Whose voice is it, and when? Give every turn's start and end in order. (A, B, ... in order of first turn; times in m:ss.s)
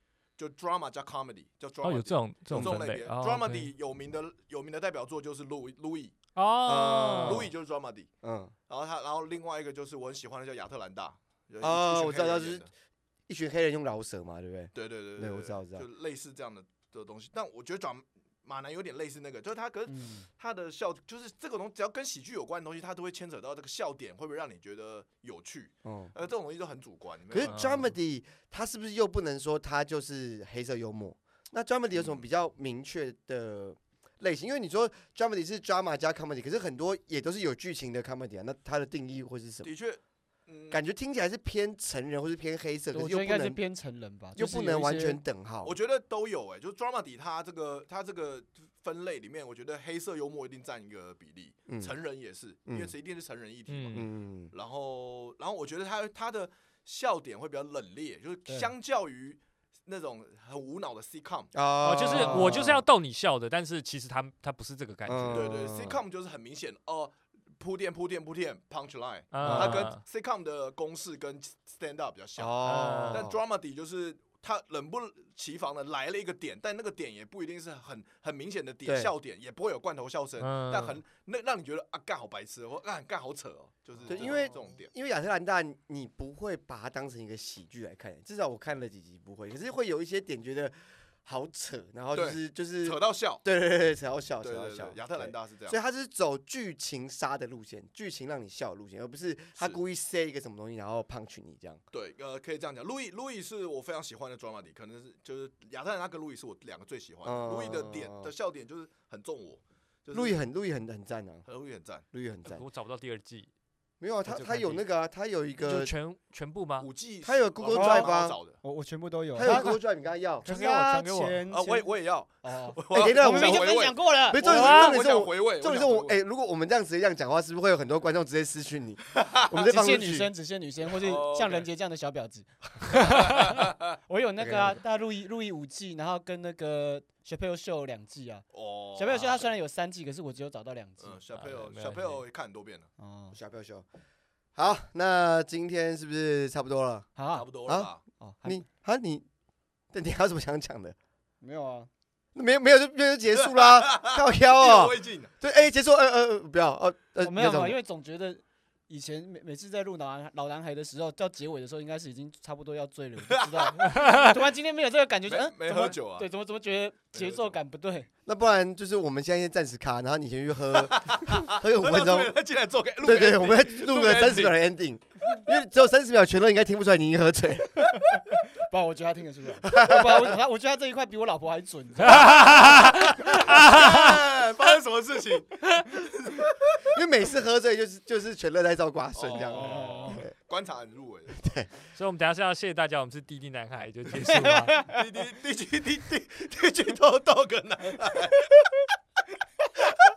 0:00.4-0:06.1 A
0:01.8-0:03.7 B
0:02.5-0:02.9 C
0:06.4-0:07.5 B
0:06.7-0:07.5 C
0:07.2-0:08.1 A
0:08.2-0:08.5 C
0:08.7-0:12.7 A
0:11.6-0:12.6 C
0:13.3-0:15.9 C
0:14.7-0:27.9 A
0:19.9-0:20.3 D
0:25.8-0:26.1 C
0:27.3-0:39.7 C
0:27.4-0:27.9 B
0:31.9-0:32.2 A
0:39.6-0:40.8 A
0:40.7-0:43.6 C
0:42.9-0:45.2 D
0:44.4-0:45.8 C
0:45.6-1:01.5 A
0:51.7-0:51.9 C
0:52.7-0:52.9 C
0:53.7-0:54.0 B
0:53.9-0:54.5 C
0:58.5-0:58.7 D
1:01.5-1:02.8 C
1:01.8-1:05.6 B
1:02.2-1:02.4 A
1:05.1-1:06.0 C
1:05.3-1:12.6 A
1:09.3-1:10.0 B
1:09.4-1:09.9 C
1:12.4-1:13.4 C
1:12.6-1:13.3 B
1:13.1-1:24.9 A
1:18.9-1:19.1 C
1:20.4-1:21.0 B
1:24.1-1:30.7 C
1:31.2-1:41.8 C
1:32.1-1:33.4 A
1:34.4-1:35.8 A
1:41.9-1:50.4 A
1:47.2-1:48.3 C
1:50.1-1:51.5 C
1:51.5-1:52.0 A
1:52.1-1:52.6 C
1:52.4-1:53.5 B
1:54.0-1:55.9 C
1:54.3-1:54.8 B
1:55.6-1:56.9 B
1:56.8-1:58.6 A
1:57.2-1:58.4 C
1:57.7-1:58.1 D
1:58.6-1:59.8 D
1:59.4-2:00.5 C
1:59.5-1:59.8 B
2:00.4-2:04.7 D
2:00.4-2:01.4 B
2:01.5-2:06.2 A
2:02.9-2:10.3 C
2:04.4-2:05.0 B
2:09.2-2:09.5 A
2:09.5-2:21.2 D
2:11.0-2:11.7 A
2:13.0-2:13.8 A
2:14.4-2:14.8 C
2:18.5-2:19.5 A
2:21.0-2:22.9 A
2:21.4-2:22.2 B
2:23.0-2:23.4 D
2:23.3-2:23.8 C
2:24.6-2:27.1 C
2:27.2-2:27.5 D
2:27.3-2:28.0 A
2:27.6-2:27.9 C
2:28.2-2:28.6 D
2:28.4-2:29.2 C
2:29.9-2:31.0 C
2:31.4-2:31.9 D
2:32.4-2:37.8 C
2:33.4-2:35.3 A
2:37.2-2:48.1 D
2:43.3-2:44.0 A
2:45.3-2:46.3 A
2:47.1-2:47.6 A
2:48.3-2:52.3 C
2:50.8-2:54.6 A
2:53.0-2:57.9 C
2:57.9-3:03.1 D
2:59.6-3:00.4 C
3:02.0-3:04.2 B
3:03.5-3:06.9 A
3:06.9-3:10.3 C
3:09.2-3:11.4 A
3:09.5-3:10.2 D
3:11.4-3:11.7 C
3:12.0-3:14.8 B
3:14.3-3:15.0 D
3:14.8-3:18.5 A